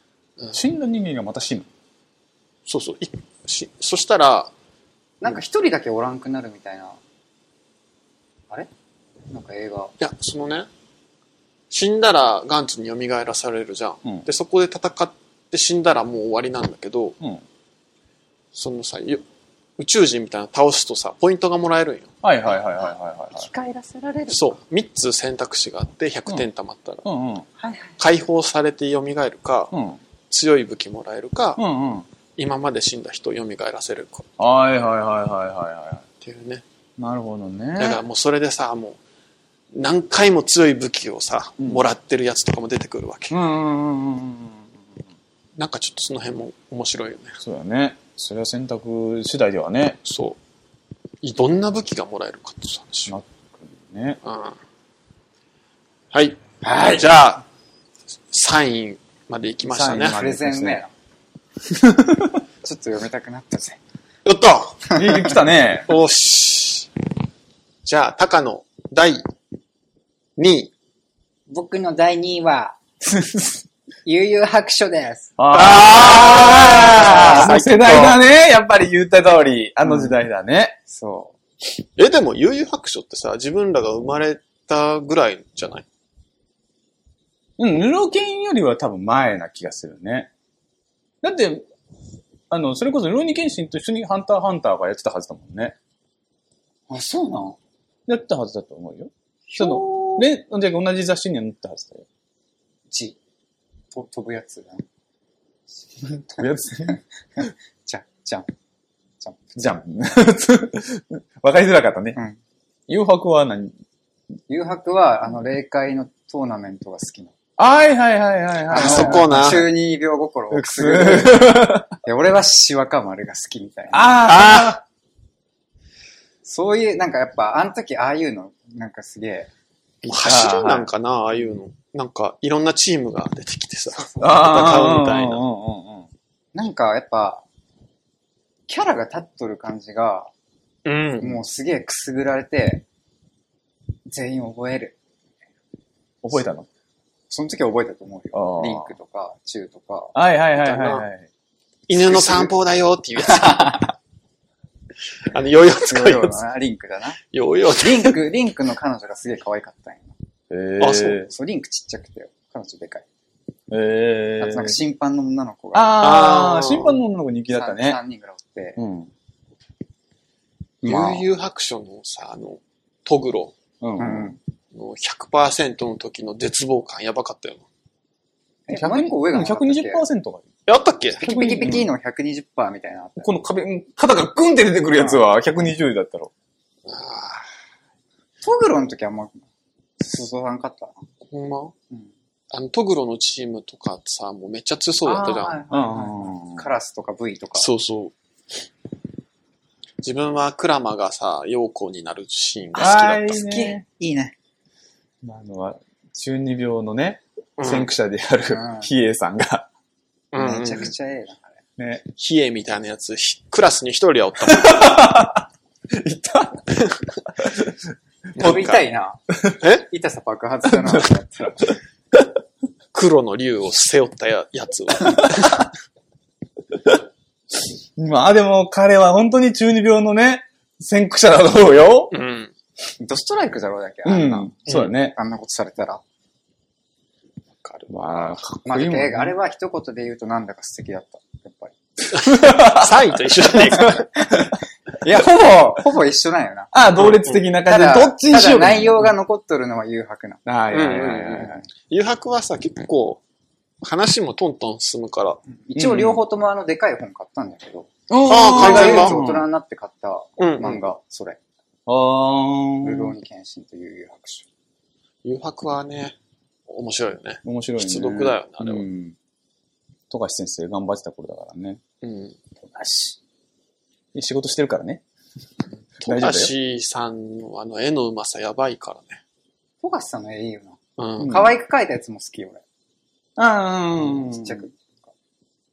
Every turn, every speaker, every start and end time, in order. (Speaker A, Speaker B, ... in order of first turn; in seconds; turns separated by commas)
Speaker A: 0.5-1.7, Speaker B: 2.7-4.5, Speaker C: 5.2-7.0, Speaker C: 9.3-9.9, Speaker B: 10.0-10.7, Speaker B: 11.7-17.1, Speaker B: 18.5-19.2, Speaker B: 19.8-22.1, Speaker A: 22.2-23.5, Speaker C: 22.8-24.6, Speaker B: 24.3-27.0, Speaker A: 27.0-27.5, Speaker C: 27.6-28.0, Speaker B: 28.0-29.7, Speaker A: 29.7-30.0, Speaker B: 30.3-31.6, Speaker A: 31.6-32.0, Speaker B: 32.4-34.3, Speaker A: 34.4-36.0, Speaker B: 36.2-36.6, Speaker A: 37.0-38.0, Speaker B: 37.8-39.0, Speaker B: 39.7-43.4, Speaker A: 43.3-44.7, Speaker B: 45.6-47.4, Speaker A: 47.4-50.0, Speaker B: 50.0-50.4, Speaker B: 51.2-53.2, Speaker A: 53.1-54.2, Speaker B: 54.2-54.6, Speaker B: 56.1-57.4, Speaker C: 56.7-57.0, Speaker B: 58.3-60.2, Speaker A: 59.6-60.8, Speaker C: 59.9-60.9, Speaker A: 61.7-62.4, Speaker C: 62.6-63.8, Speaker B: 64.2-64.8, Speaker C: 64.9-65.4, Speaker A: 64.9-65.9, Speaker B: 65.9-66.9, Speaker B: 67.8-69.2, Speaker B: 70.4-70.7, Speaker C: 71.5-75.4, Speaker A: 75.4-80.8, Speaker B: 75.5-78.2, Speaker C: 76.1-77.5, Speaker C: 79.8-80.2, Speaker C: 80.9-81.3, Speaker B: 82.0-85.8, Speaker A: 87.6-90.3, Speaker A: 91.2-91.6, Speaker A: 92.5-95.8, Speaker C: 96.9-97.6, Speaker A: 98.1-102.0, Speaker C: 99.5-100.3, Speaker C: 102.9-103.2, Speaker C: 103.9-104.8, Speaker C: 106.0-108.5, Speaker A: 106.3-107.4, Speaker C: 109.2-109.5, Speaker A: 109.5-112.2, Speaker A: 112.9-113.7, Speaker C: 114.5-117.3, Speaker A: 117.6-119.6, Speaker C: 118.7-124.2, Speaker B: 118.7-119.7, Speaker A: 120.5-121.9, Speaker A: 123.9-124.8, Speaker B: 124.2-124.8, Speaker C: 126.4-129.5, Speaker B: 130.0-135.4, Speaker A: 130.1-130.9, Speaker C: 134.0-134.8, Speaker A: 134.2-136.1, Speaker C: 136.5-137.4, Speaker C: 138.7-140.3, Speaker B: 140.8-141.4, Speaker C: 141.2-142.8, Speaker C: 144.1-145.0, Speaker A: 146.2-146.7, Speaker C: 147.3-150.1, Speaker A: 148.3-148.9, Speaker A: 150.1-151.3, Speaker B: 150.6-151.1, Speaker B: 151.9-153.9, Speaker A: 152.1-152.4, Speaker C: 153.4-153.8, Speaker B: 155.2-156.4, Speaker C: 155.8-157.2, Speaker B: 157.3-158.2, Speaker C: 157.8-160.1, Speaker A: 160.5-161.3, Speaker B: 160.8-161.2, Speaker C: 161.3-163.0, Speaker A: 163.7-164.8, Speaker C: 164.4-166.0, Speaker A: 165.7-168.0, Speaker B: 166.0-167.0, Speaker C: 167.5-168.8, Speaker A: 168.8-169.1, Speaker C: 170.8-171.2, Speaker B: 170.8-173.5, Speaker A: 170.9-171.2, Speaker A: 173.8-174.3, Speaker C: 174.0-174.4, Speaker B: 174.7-177.6, Speaker C: 178.7-180.0, Speaker A: 178.7-180.5, Speaker B: 180.7-181.2, Speaker C: 181.2-183.3, Speaker A: 181.2-181.9, Speaker A: 183.2-186.3, Speaker C: 185.0-185.2, Speaker B: 186.9-187.4, Speaker C: 188.4-189.4, Speaker C: 190.0-191.0, Speaker B: 191.2-191.7, Speaker B: 192.5-195.6, Speaker C: 195.0-197.7, Speaker A: 195.7-196.7, Speaker B: 197.6-198.1, Speaker B: 200.0-203.3, Speaker A: 202.7-203.8, Speaker C: 202.8-204.3, Speaker A: 205.2-209.7, Speaker B: 207.6-207.9, Speaker C: 208.5-208.9, Speaker B: 210.3-210.9, Speaker C: 210.3-211.5, Speaker A: 211.8-212.0, Speaker B: 212.1-214.9, Speaker A: 214.4-216.7, Speaker B: 216.7-217.0, Speaker A: 217.4-217.8, Speaker B: 218.3-218.8, Speaker C: 218.4-219.2, Speaker C: 219.8-221.8, Speaker A: 220.7-221.1, Speaker B: 222.9-225.7, Speaker A: 225.1-225.7, Speaker A: 227.9-232.1, Speaker B: 232.1-232.5, Speaker C: 233.0-236.0, Speaker A: 234.0-235.2, Speaker B: 237.6-238.4, Speaker A: 237.9-239.3, Speaker C: 238.6-241.8, Speaker B: 242.1-244.1, Speaker A: 242.2-243.2, Speaker A: 243.7-245.8, Speaker C: 244.2-244.5, Speaker C: 245.0-246.7, Speaker A: 246.7-249.1, Speaker B: 247.0-247.4, Speaker C: 247.6-250.4, Speaker A: 250.4-251.6, Speaker B: 250.7-253.2, Speaker B: 253.8-255.4, Speaker C: 255.7-261.4, Speaker A: 255.8-256.2, Speaker A: 258.1-259.5, Speaker B: 258.3-259.2, Speaker B: 260.4-260.8, Speaker A: 261.9-263.2, Speaker C: 262.8-264.4, Speaker B: 265.2-266.1, Speaker B: 266.7-268.9, Speaker A: 267.4-269.1, Speaker A: 270.1-271.8, Speaker B: 272.0-272.4, Speaker A: 272.6-273.1, Speaker A: 274.1-275.0, Speaker A: 276.0-276.5, Speaker B: 276.0-279.2, Speaker C: 279.8-282.6, Speaker B: 281.0-281.3, Speaker A: 281.2-281.5, Speaker A: 283.4-284.6, Speaker C: 284.0-285.1